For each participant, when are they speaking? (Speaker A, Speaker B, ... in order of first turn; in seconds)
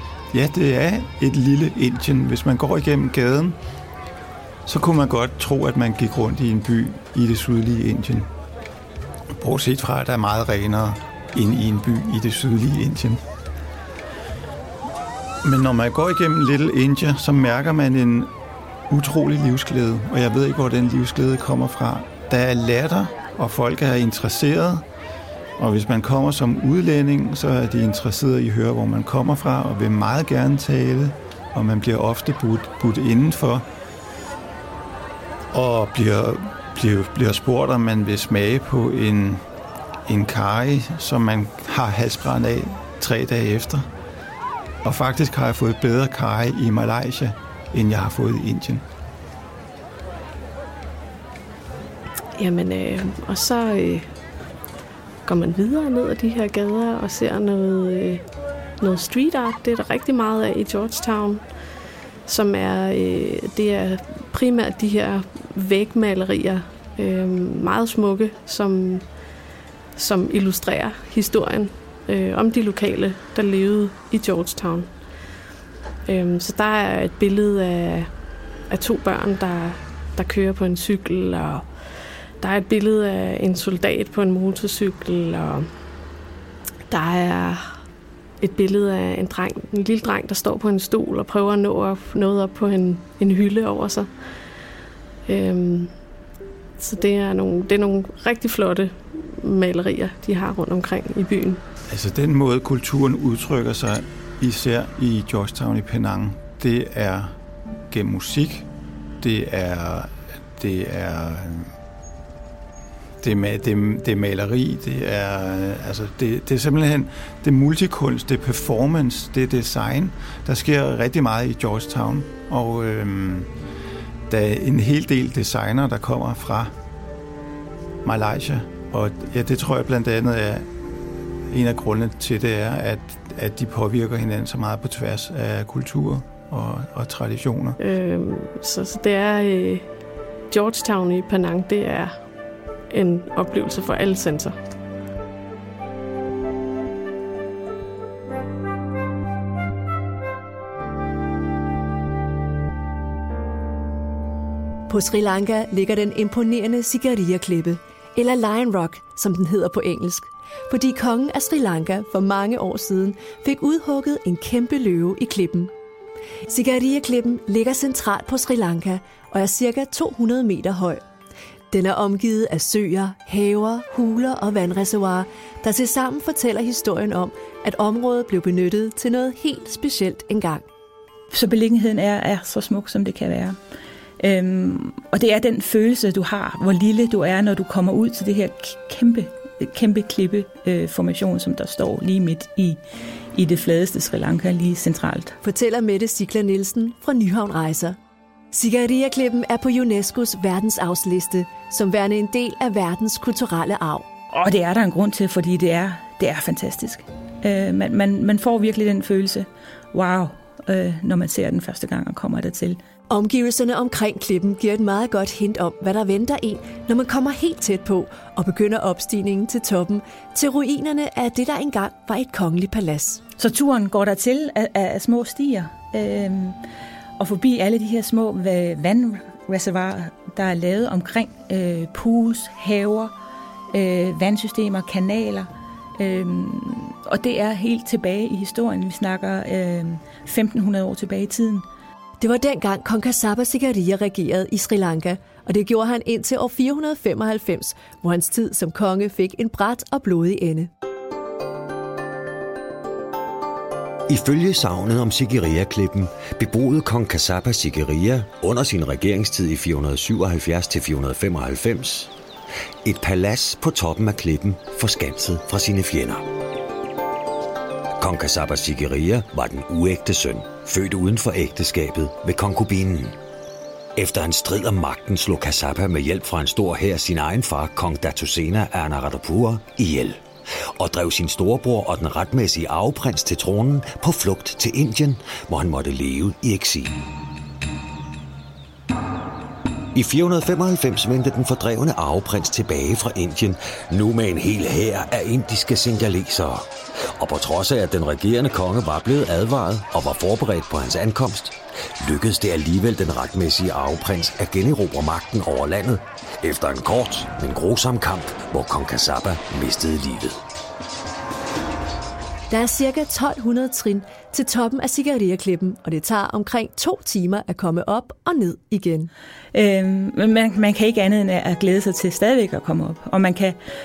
Speaker A: 0.3-3.6, 4.7-8.3, 9.4-13.2, 15.4-18.3, 18.9-24.8, 25.6-33.6, 35.5-39.4, 40.0-43.9, 44.8-48.8, 101.9-107.3, 107.9-108.7, 109.2-111.7, 113.2-123.5, 124.3-126.7, 128.0-130.7, 131.5-137.8
Speaker B: 52.4-54.1, 55.2-58.2, 58.8-61.4, 62.2-69.1, 70.0-74.9, 76.0-78.1, 78.7-81.7, 82.4-85.7, 86.9-87.8, 88.4-94.1, 95.2-95.9, 96.8-101.6, 137.8-139.9, 140.5-142.1, 142.9-144.6
Speaker C: 154.9-165.7, 166.4-171.0, 171.7-180.7, 195.4-198.0, 198.5-204.1, 213.1-223.2, 242.2-250.7, 312.5-319.1
Speaker D: 181.3-183.6, 184.2-192.8, 193.3-195.4, 204.3-212.8, 223.4-226.6, 227.2-233.1, 233.7-241.7, 319.5-323.6
Speaker E: 254.1-262.1, 262.8-266.3, 268.0-273.2, 273.9-286.9, 289.9-310.4